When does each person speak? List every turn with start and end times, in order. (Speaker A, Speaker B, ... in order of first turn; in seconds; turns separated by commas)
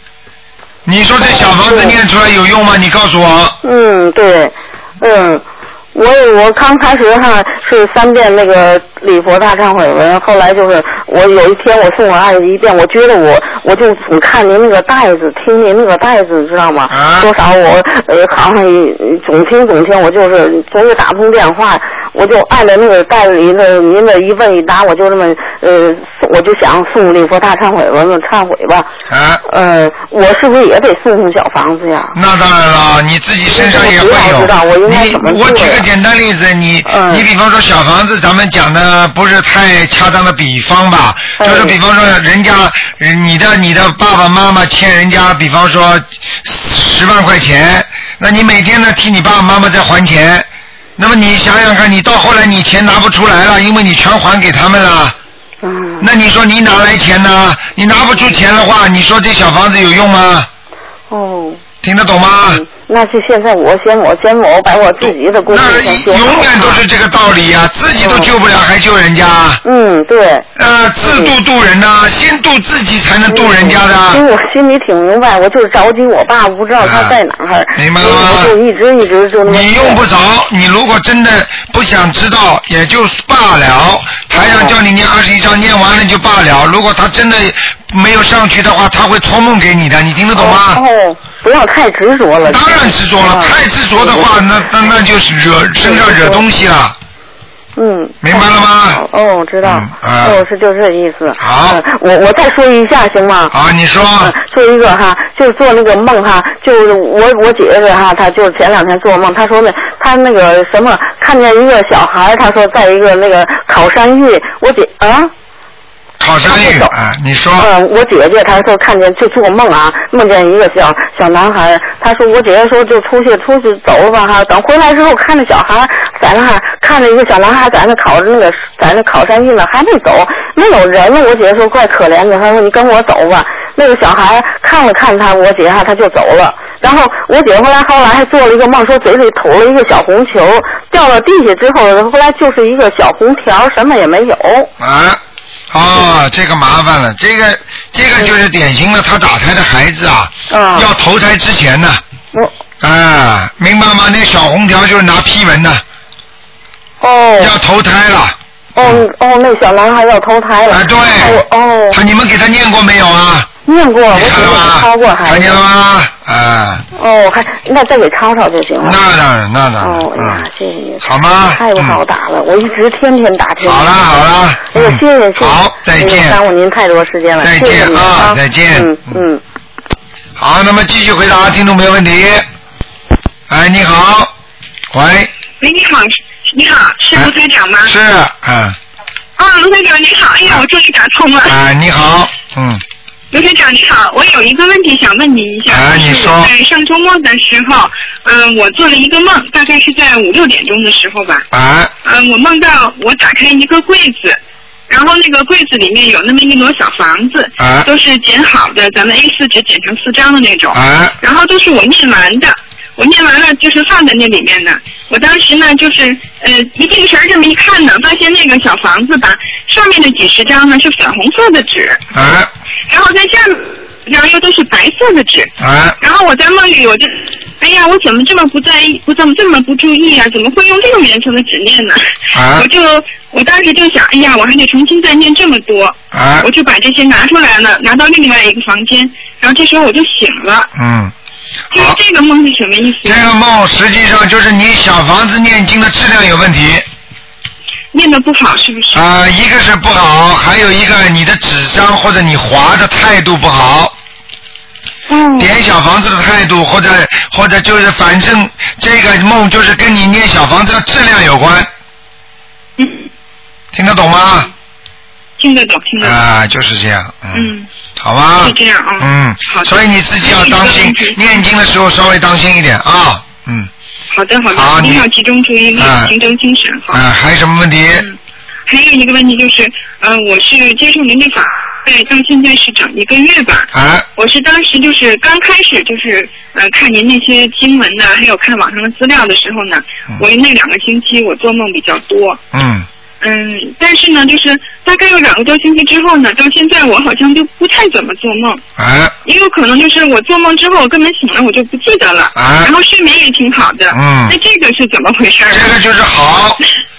Speaker A: 0.8-3.6, Speaker B: 1.2-2.0, Speaker B: 3.6-28.9, Speaker A: 16.9-17.3, Speaker A: 29.1-29.4, Speaker B: 29.4-32.2, Speaker A: 32.1-55.2, Speaker B: 33.5-35.9, Speaker B: 36.9-37.3, Speaker B: 41.4-41.8, Speaker B: 55.6-56.1, Speaker A: 56.0-60.5, Speaker B: 61.1-61.6, Speaker A: 61.8-62.6, Speaker B: 62.5-66.8, Speaker A: 65.0-69.6, Speaker B: 68.0-68.3, Speaker B: 69.6-70.5, Speaker A: 70.6-74.2, Speaker B: 71.0-71.3, Speaker B: 73.3-80.0, Speaker A: 76.8-77.2, Speaker A: 77.8-78.5, Speaker A: 79.5-90.8, Speaker B: 84.3-84.7, Speaker B: 90.3-94.4, Speaker A: 92.5-97.0, Speaker B: 95.8-96.4, Speaker B: 97.8-103.5, Speaker A: 98.2-99.0, Speaker A: 99.6-100.4, Speaker A: 101.4-101.8, Speaker A: 103.5-104.3, Speaker B: 104.2-115.3, Speaker A: 116.2-117.7, Speaker B: 116.4-116.9, Speaker B: 117.6-144.7, Speaker A: 144.8-145.2, Speaker A: 145.7-152.0, Speaker B: 150.5-150.9, Speaker A: 152.8-155.8, Speaker B: 157.0-157.6, Speaker A: 157.4-159.1, Speaker B: 158.8-162.0, Speaker A: 160.7-163.5, Speaker B: 163.7-165.6, Speaker A: 164.1-166.8, Speaker B: 167.0-169.0, Speaker A: 168.8-170.4, Speaker B: 169.8-173.9, Speaker A: 171.0-172.0, Speaker A: 173.6-176.4, Speaker B: 174.7-179.4, Speaker A: 177.4-179.2, Speaker A: 180.4-182.5, Speaker A: 183.5-184.3, Speaker A: 184.9-185.3, Speaker C: 185.6-187.9, Speaker A: 187.8-188.8, Speaker C: 189.4-191.6, Speaker A: 191.4-192.8, Speaker C: 193.3-201.4, Speaker A: 195.7-196.5, Speaker A: 201.5-201.9, Speaker C: 202.0-204.4, Speaker C: 204.9-222.0, Speaker A: 207.6-207.9, Speaker A: 210.7-211.2, Speaker A: 222.1-222.5, Speaker C: 222.9-240.7, Speaker A: 225.6-226.0, Speaker A: 232.3-232.7, Speaker A: 236.1-236.5, Speaker A: 240.8-241.1, Speaker A: 241.7-242.0, Speaker C: 241.7-243.2, Speaker A: 243.0-246.9, Speaker C: 247.9-249.0, Speaker A: 248.9-253.9, Speaker A: 255.4-261.7, Speaker C: 262.8-263.1, Speaker A: 263.7-264.5, Speaker C: 265.4-266.2, Speaker A: 266.0-273.7, Speaker C: 267.3-267.7, Speaker C: 268.4-271.4, Speaker C: 274.1-277.0, Speaker A: 274.5-275.1, Speaker A: 275.8-276.1, Speaker A: 276.9-278.1, Speaker C: 277.9-292.4, Speaker A: 283.7-284.1, Speaker A: 292.5-292.9, Speaker C: 293.2-298.6, Speaker A: 298.8-299.1, Speaker C: 299.2-305.8, Speaker A: 302.4-302.7, Speaker A: 303.9-304.4, Speaker A: 305.5-306.6